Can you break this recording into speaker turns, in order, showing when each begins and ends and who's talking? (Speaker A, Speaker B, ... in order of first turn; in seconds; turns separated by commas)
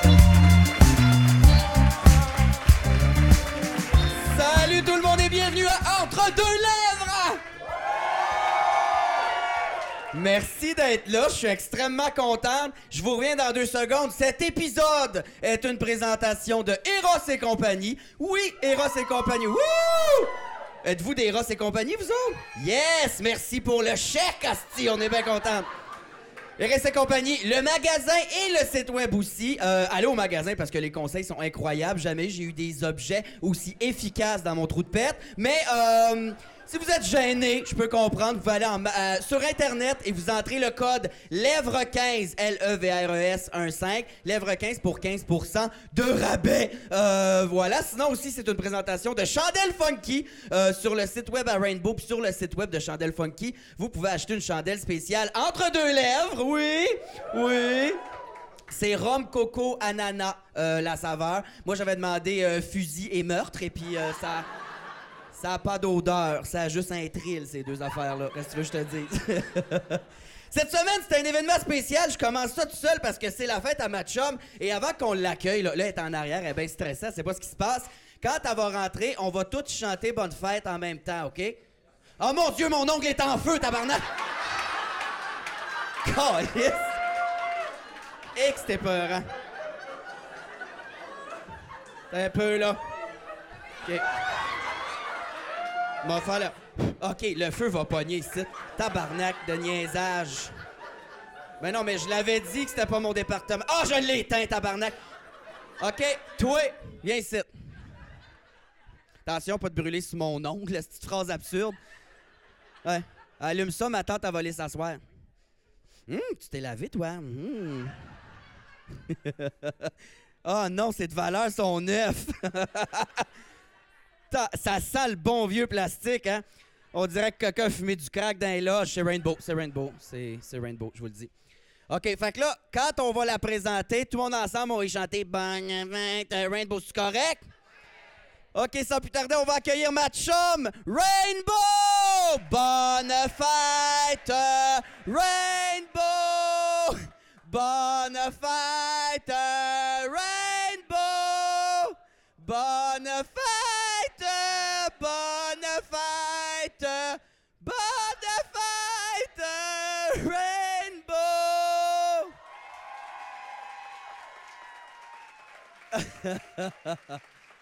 Speaker A: 4.2-7.4, Speaker A: 10.1-25.7, Speaker A: 26.6-58.0, Speaker A: 58.7-64.5, Speaker A: 65.3-81.6, Speaker A: 82.2-84.0, Speaker A: 86.0-87.0, Speaker A: 88.3-89.3, Speaker A: 92.1-92.8, Speaker A: 93.8-94.1, Speaker A: 96.0-100.5, Speaker A: 101.6-105.0, Speaker A: 105.8-107.5, Speaker A: 109.2-111.8, Speaker A: 112.8-115.0, Speaker A: 116.1-118.0, Speaker A: 119.0-119.9, Speaker A: 120.4-123.3, Speaker A: 124.3-131.3, Speaker A: 131.9-137.4, Speaker A: 138.5-162.3, Speaker A: 165.9-167.2